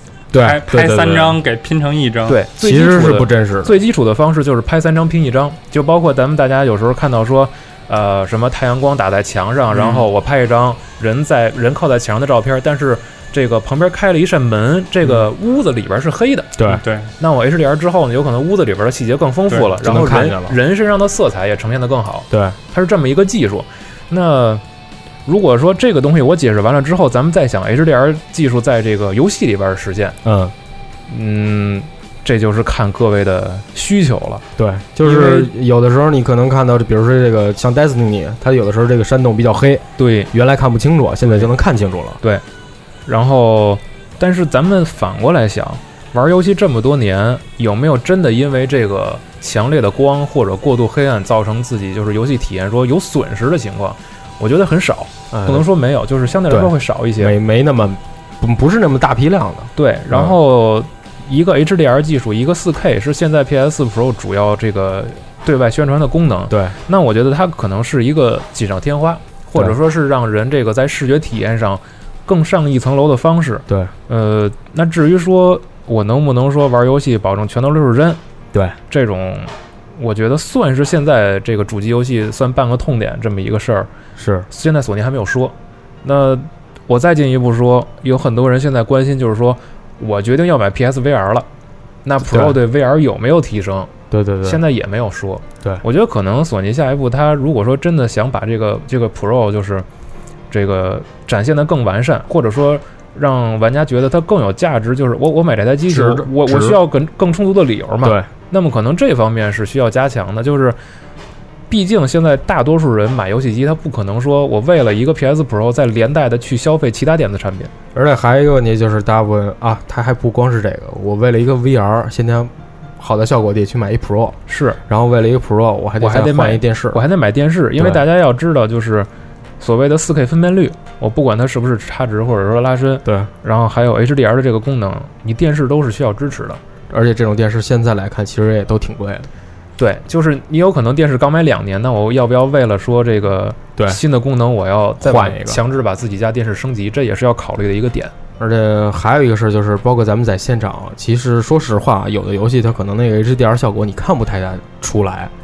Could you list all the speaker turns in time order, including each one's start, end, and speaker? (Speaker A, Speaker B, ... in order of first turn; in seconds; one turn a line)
Speaker A: 0.3-1.4
Speaker B: 0.4-2.4
Speaker C: 2.3-24.6
Speaker A: 2.6-3.8
Speaker B: 9.7-10.1
Speaker B: 16.7-17.1
Speaker B: 19.5-19.8
Speaker A: 19.8-20.6
Speaker A: 22.3-22.6
Speaker C: 25.3-30.2
Speaker A: 30.2-30.5
Speaker C: 31.1-34.4
Speaker A: 34.6-42.2
Speaker C: 35.0-35.5
Speaker C: 40.0-40.3
Speaker C: 41.2-41.5
Speaker C: 43.1-57.3
Speaker A: 55.3-55.7
Speaker A: 56.5-60.4
Speaker C: 59.8-78.2
Speaker A: 66.5-66.8
Speaker C: 78.9-83.9
Speaker A: 84.2-84.5
Speaker C: 84.5-91.5
Speaker C: 92.0-93.9
Speaker A: 92.2-92.6
Speaker A: 94.1-94.6
Speaker C: 94.4-99.9
Speaker C: 100.5-110.8
Speaker A: 105.9-106.8
Speaker C: 111.7-117.7
Speaker A: 118.0-127.0
Speaker C: 124.5-124.8
Speaker C: 126.0-129.1
Speaker C: 129.6-136.6
Speaker A: 133.1-133.3
Speaker A: 136.9-139.3
Speaker C: 139.8-148.1
Speaker A: 145.0-145.6
Speaker A: 148.4-155.3